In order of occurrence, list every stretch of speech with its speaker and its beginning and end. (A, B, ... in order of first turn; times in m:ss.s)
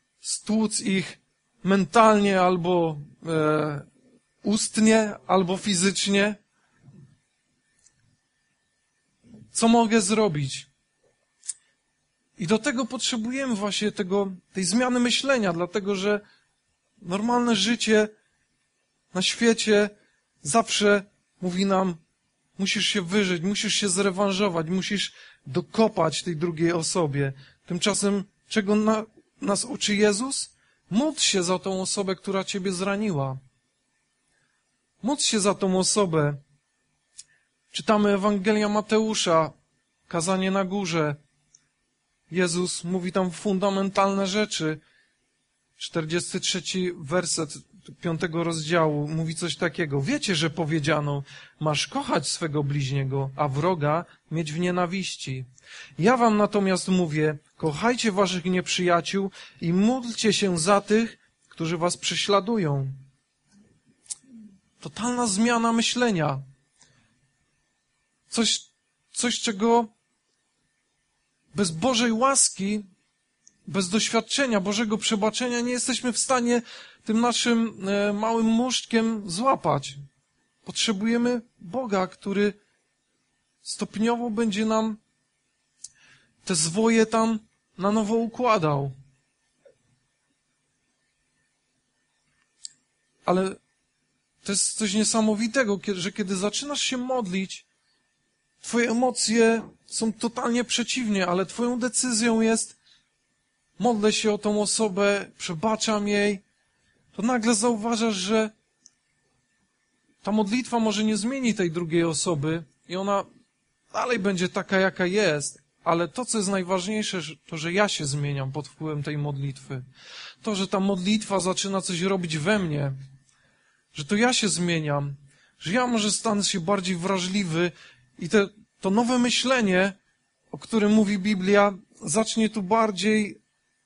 0:00.2-0:03.9 A
0:04.4-0:06.4 A
0:09.5-0:10.7 A
0:12.4-0:16.2 A
0:17.0-0:18.1 A
0:19.1-0:19.9 A
0:20.4-0:22.0 A
0:22.6-0:33.4 A
0:35.0-0:36.4 A
0:37.7-0:39.5 A
0:40.1-0:41.2 A
0:42.3-0:44.8 A
0:45.8-1:03.0 A
1:04.8-1:06.4 A
1:08.3-1:09.9 A
1:11.5-1:12.8 A
1:13.7-1:20.0 A
1:20.6-1:22.6 A
1:23.6-1:25.0 A
1:26.4-1:28.9 A
1:33.2-1:33.6 A
1:34.4-1:37.6 A
1:38.6-1:42.8 A
1:43.8-1:46.4 A
1:47.1-1:48.5 A
1:50.2-1:53.3 A
1:53.9-1:59.8 A
2:00.4-2:02.9 A
2:03.9-2:10.0 A
2:10.5-2:13.4 A